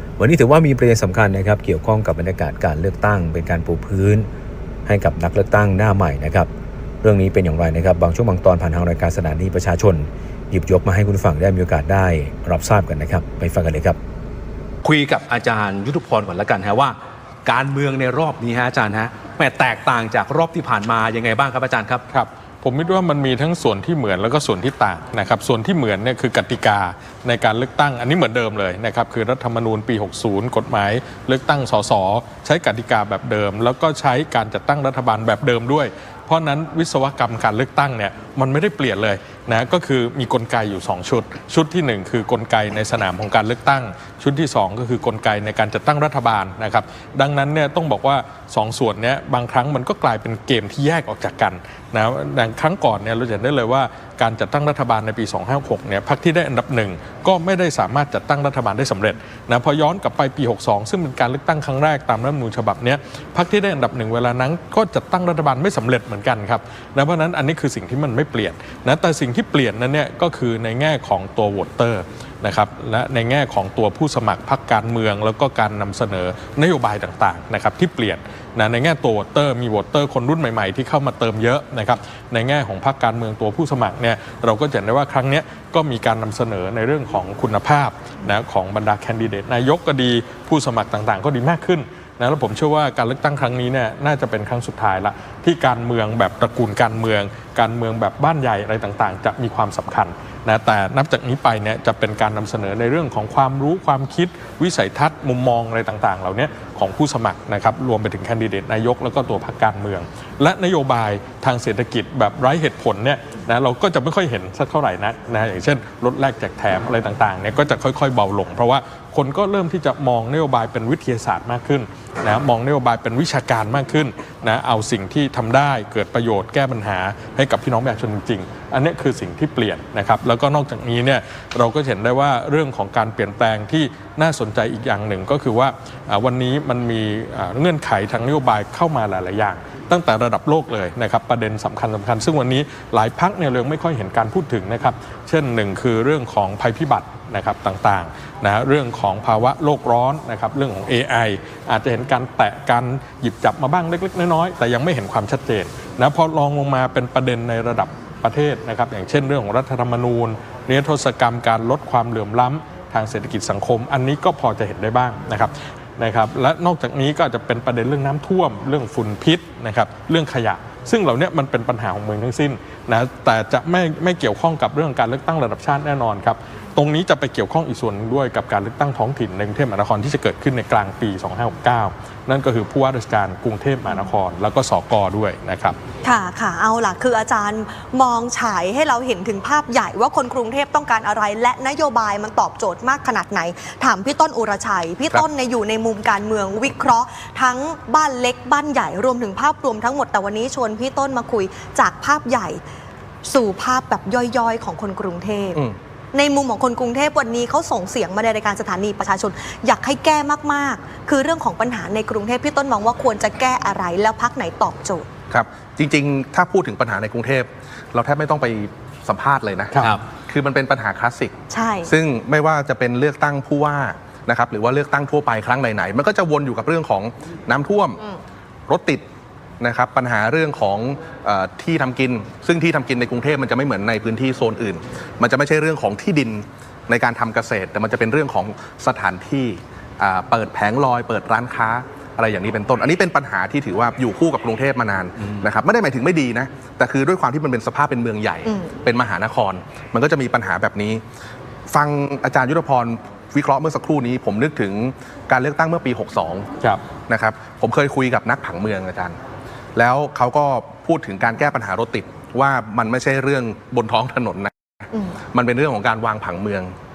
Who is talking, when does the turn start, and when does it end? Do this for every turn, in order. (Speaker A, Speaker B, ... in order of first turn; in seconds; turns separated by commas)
Speaker A: 0.2-4.3, Speaker A: 4.8-6.5, Speaker A: 7.0-14.0, Speaker B: 14.8-22.0, Speaker C: 22.1-185.8, Speaker D: 186.0-202.6, Speaker D: 203.2-205.6, Speaker D: 206.1-215.1, Speaker E: 215.3-228.0, Speaker B: 219.8-220.0, Speaker D: 221.5-221.9, Speaker E: 228.7-229.0, Speaker E: 229.6-251.0, Speaker B: 245.2-245.4, Speaker D: 248.4-248.7, Speaker E: 251.7-256.5, Speaker E: 257.1-259.2, Speaker E: 259.8-264.5, Speaker E: 265.3-266.7